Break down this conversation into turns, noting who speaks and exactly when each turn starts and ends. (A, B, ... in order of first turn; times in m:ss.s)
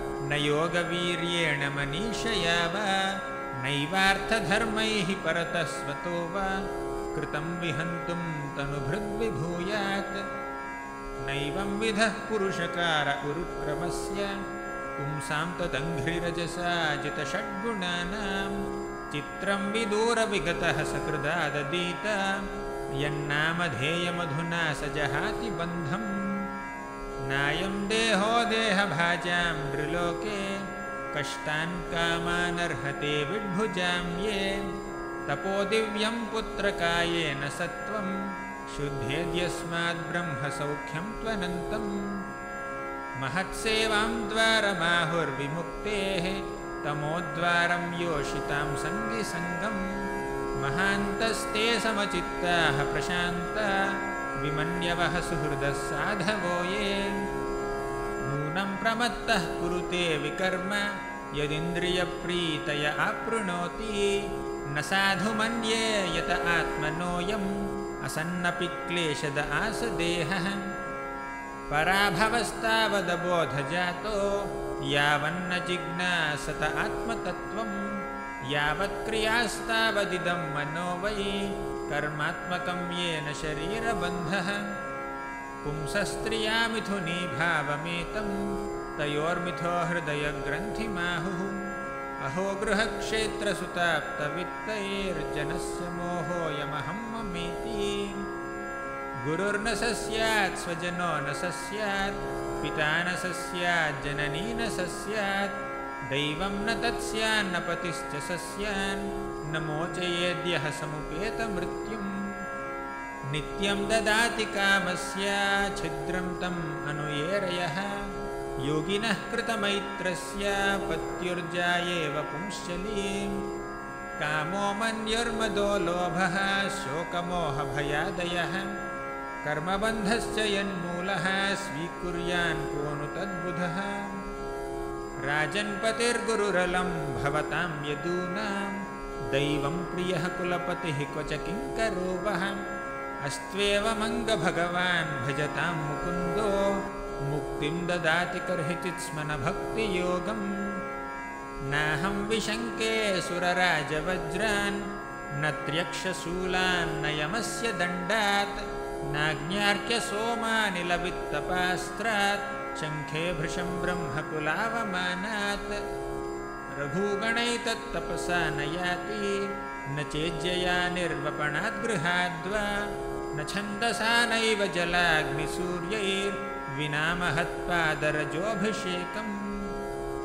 0:00.3-0:03.0 A
0:03.6-0:06.5 A
0:07.1-0:10.2 A
0:11.2-0:14.3 A
0:15.0-0:18.6 A
0:19.1-0:22.2 A
0:23.0-0:26.1 A
0:27.3-0:30.4 A
0:31.1-0:34.5 A
0:35.3-0:38.1 A
0:38.7-0:41.9 A
0:43.2-0:49.8 A
0:50.6-0:53.8 A
0:54.4-0:57.1 A
0:58.2-1:04.1 A
1:04.7-1:07.5 A
1:08.0-1:10.6 A
1:11.7-1:14.2 A
1:14.9-1:17.8 A
1:18.5-1:24.6 A
1:25.6-1:28.3 A
1:29.0-1:31.6 A
1:32.2-1:38.2 A
1:39.2-1:45.5 A
1:46.1-1:52.1 A
1:53.3-1:57.9 A
1:58.7-2:03.4 A
2:04.2-2:08.7 A
2:09.4-2:14.1 A
2:15.3-2:18.8 A
2:19.3-2:22.6 A
2:23.2-2:26.6 A
2:27.3-2:30.5 A
2:31.7-2:34.8 A
2:35.4-2:45.8 A
2:46.8-2:52.7 A
2:53.3-2:59.3 A